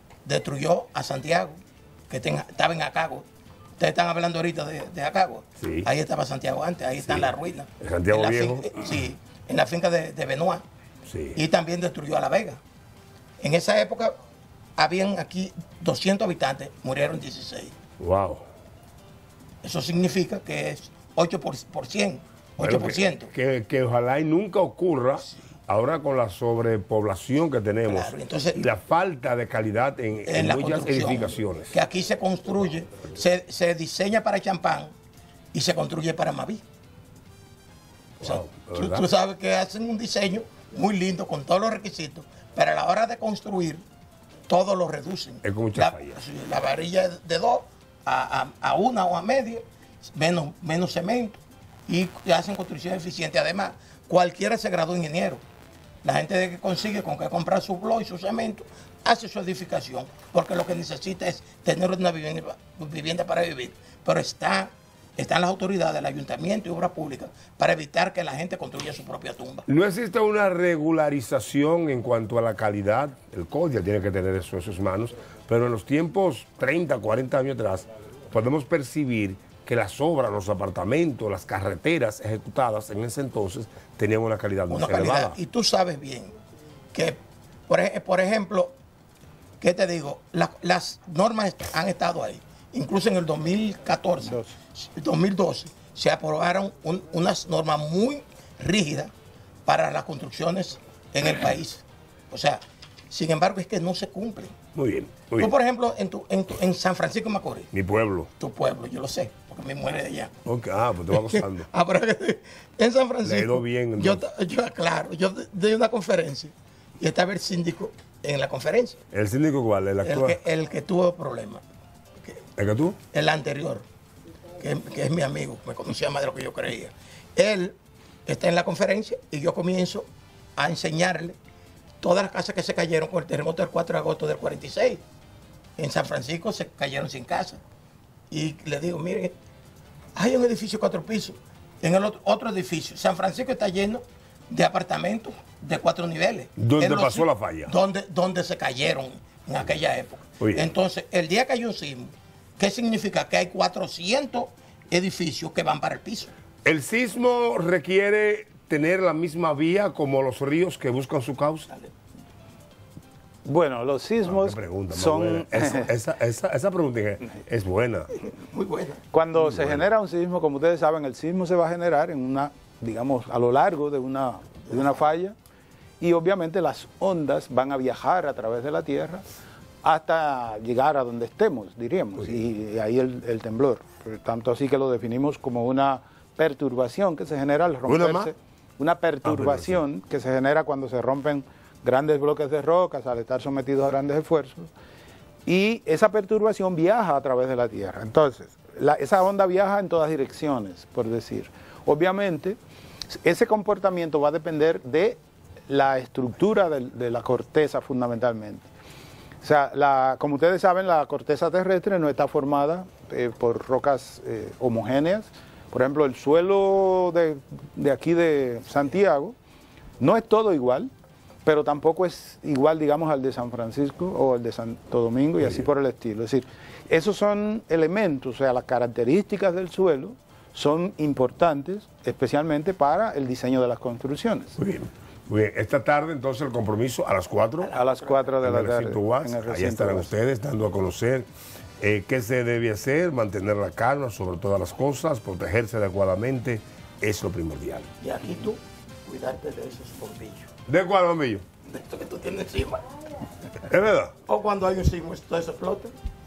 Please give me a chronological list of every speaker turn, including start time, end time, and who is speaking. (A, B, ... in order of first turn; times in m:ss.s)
0:00.2-0:03.3 A
0:03.8-0:10.6 A
0:05.6-0:05.9 B
0:07.0-0:09.0 B
0:11.1-0:11.4 B
0:11.4-0:12.6 A
0:13.4-0:14.2 A
0:14.8-0:17.8 A
0:18.0-0:18.4 B
0:19.6-0:23.3 A
0:22.6-0:31.7 B
0:27.9-0:28.7 A
0:30.3-0:34.9 A
0:35.5-0:36.6 A
0:38.2-0:39.1 B
0:38.2-0:43.8 A
0:44.5-0:55.4 A
0:45.4-0:46.2 B
0:56.0-1:09.7 A
1:09.7-1:25.4 B
1:24.7-1:26.3 A
1:26.9-1:28.8 A
1:29.6-1:39.1 A
1:34.2-1:34.6 C
1:39.7-1:44.6 A
1:44.7-1:45.5 B
1:45.4-1:47.7 A
1:47.7-1:48.3 B
1:48.4-1:50.4 A
1:50.5-1:51.7 B
1:51.1-1:59.0 A
1:53.2-1:54.2 B
1:59.1-2:00.4 B
2:00.0-2:01.6 A
2:02.6-2:03.0 B
2:03.1-2:03.9 A
2:04.6-2:11.4 A
2:12.0-2:15.0 A
2:15.8-2:17.6 A
2:18.3-2:19.3 A
2:20.2-2:36.3 A
2:26.6-2:27.7 B
2:30.4-2:30.7 B
2:36.6-2:41.7 B
2:43.4-2:45.9 C
2:44.2-2:48.1 B
2:48.2-2:49.0 A
2:49.1-2:55.4 C
2:49.4-2:49.8 B
2:56.0-2:59.2 C
2:59.8-3:14.7 C
3:07.9-3:08.3 B
3:09.3-3:09.8 B
3:15.5-3:22.6 C
3:23.1-3:28.7 C
3:29.4-3:39.4 C
3:40.0-3:40.9 C
3:41.4-3:54.6 C
3:54.6-3:57.7 B
3:57.6-3:58.3 A
3:57.7-4:00.1 C
3:58.4-4:01.3 B
4:01.8-4:07.9 B
4:08.0-4:10.5 A
4:10.7-4:11.4 B
4:11.7-4:12.9 A
4:13.7-4:14.1 B
4:14.3-4:15.9 A